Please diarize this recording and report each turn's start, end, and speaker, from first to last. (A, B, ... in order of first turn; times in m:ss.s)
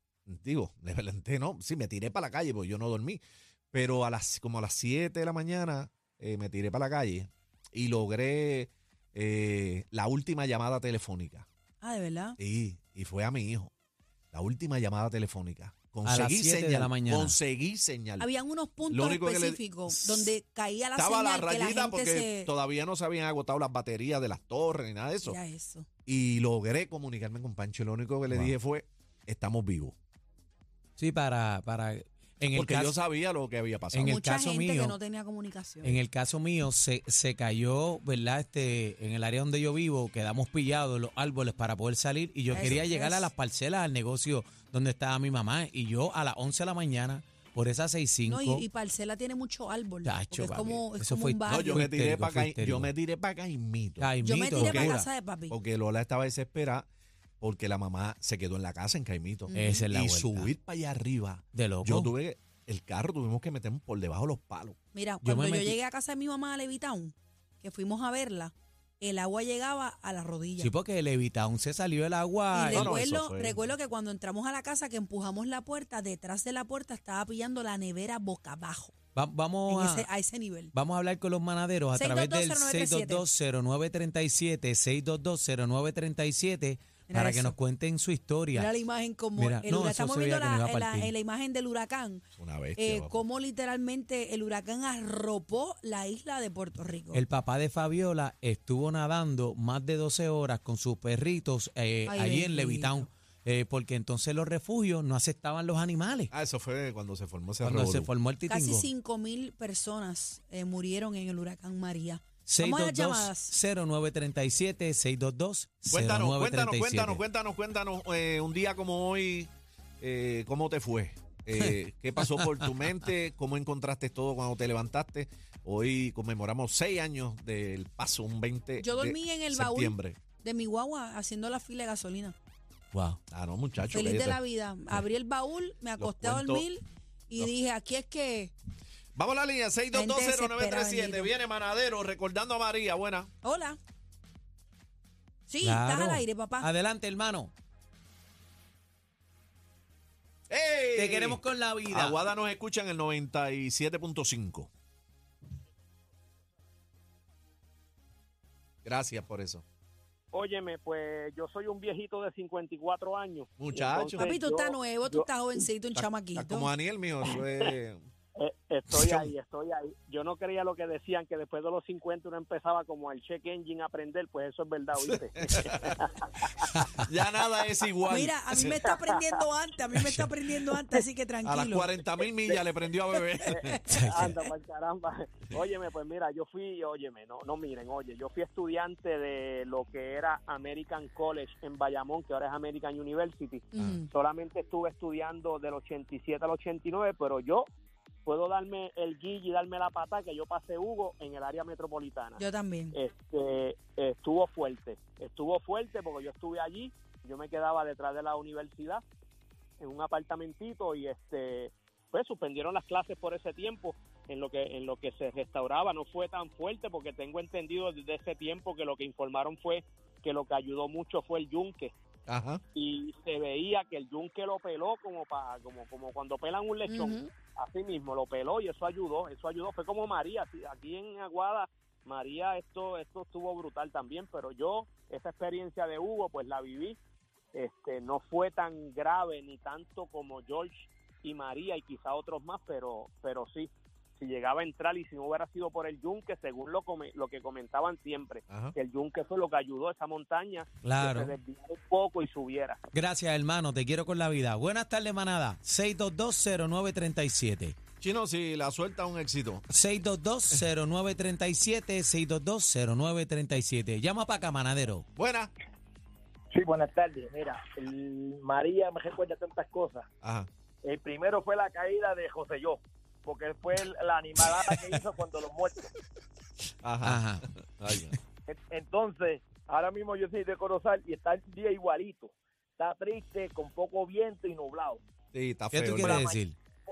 0:00.3-0:11.4 A
0:11.8-0:12.4 B
0:12.4-0:13.7 A
0:14.3-0:18.3 A
0:16.0-0:17.4 C
0:18.2-0:22.5 B
0:18.9-0:20.3 A
0:21.0-0:25.4 A
0:25.2-0:25.9 B
0:26.0-0:29.9 A
0:31.0-0:32.9 C
0:32.5-0:34.1 A
0:33.9-0:35.0 C
0:34.1-0:36.0 B
0:35.8-0:48.6 C
0:42.5-0:43.3 B
0:42.5-0:42.8 A
0:48.2-0:51.8 B
0:50.0-0:52.9 C
0:51.5-0:55.0 A
0:54.0-0:55.1 C
0:54.2-0:55.5 B
0:55.5-0:56.9 A
0:57.4-1:04.8 A
0:59.5-0:59.9 B
0:59.5-1:00.5 C
1:01.5-1:02.1 C
1:04.9-1:10.7 B
1:05.2-1:05.7 C
1:10.6-1:12.9 C
1:12.5-1:18.9 B
1:12.7-1:13.6 A
1:19.1-1:20.0 C
1:19.7-1:20.7 B
1:20.7-1:28.7 C
1:21.9-1:23.2 B
1:27.1-1:27.6 B
1:28.5-1:32.2 B
1:29.4-1:31.1 C
1:32.4-1:33.2 A
1:32.8-1:37.2 B
1:37.1-1:46.3 C
1:42.0-1:43.1 B
1:46.3-1:48.1 A
1:47.6-1:48.9 C
1:48.5-1:53.5 B
1:52.4-1:57.2 C
1:55.9-2:10.2 A
2:02.3-2:02.6 C
2:08.8-2:12.4 B
2:12.9-2:13.2 C
2:13.3-2:14.4 A
2:13.9-2:18.5 B
2:16.0-2:16.6 A
2:19.1-2:23.3 A
2:19.9-2:21.3 B
2:23.4-2:23.8 B
2:25.5-2:26.7 B
2:25.6-2:27.5 C
2:30.5-2:34.7 A
2:30.9-2:32.2 C
2:38.8-2:39.6 A
2:40.3-2:45.6 D
2:43.6-2:44.2 A
2:44.2-2:46.7 B
2:45.9-2:48.0 A
2:47.3-2:47.7 D
2:48.4-2:56.6 D
2:48.9-2:49.3 A
2:55.4-2:56.0 A
2:56.7-2:57.0 C
2:57.0-2:58.8 A
2:58.1-3:01.9 B
2:58.8-2:59.4 D
3:01.4-3:04.3 A
3:03.4-3:17.7 D
3:03.9-3:04.3 C
3:13.7-3:14.1 B
3:13.8-3:14.0 A
3:18.2-3:22.4 D
3:22.4-3:23.0 B
3:22.9-3:29.0 D
3:29.8-3:41.9 D
3:42.3-3:42.6 A
3:42.7-3:57.0 D
3:46.9-3:47.3 B
3:57.5-4:12.8 D
4:08.5-4:08.7 A
4:10.8-4:11.3 C
4:12.9-4:17.8 C
4:18.0-4:19.7 A
4:19.7-4:25.0 C
4:25.2-4:25.5 A
4:26.5-4:30.0 E
4:30.2-4:30.5 A
4:30.8-4:35.9 E
4:36.8-4:37.2 A
4:37.0-4:37.4 C
4:37.8-4:38.2 A
4:38.5-4:45.0 E
4:45.3-4:46.3 A
4:45.7-4:46.6 C
4:45.9-4:46.4 E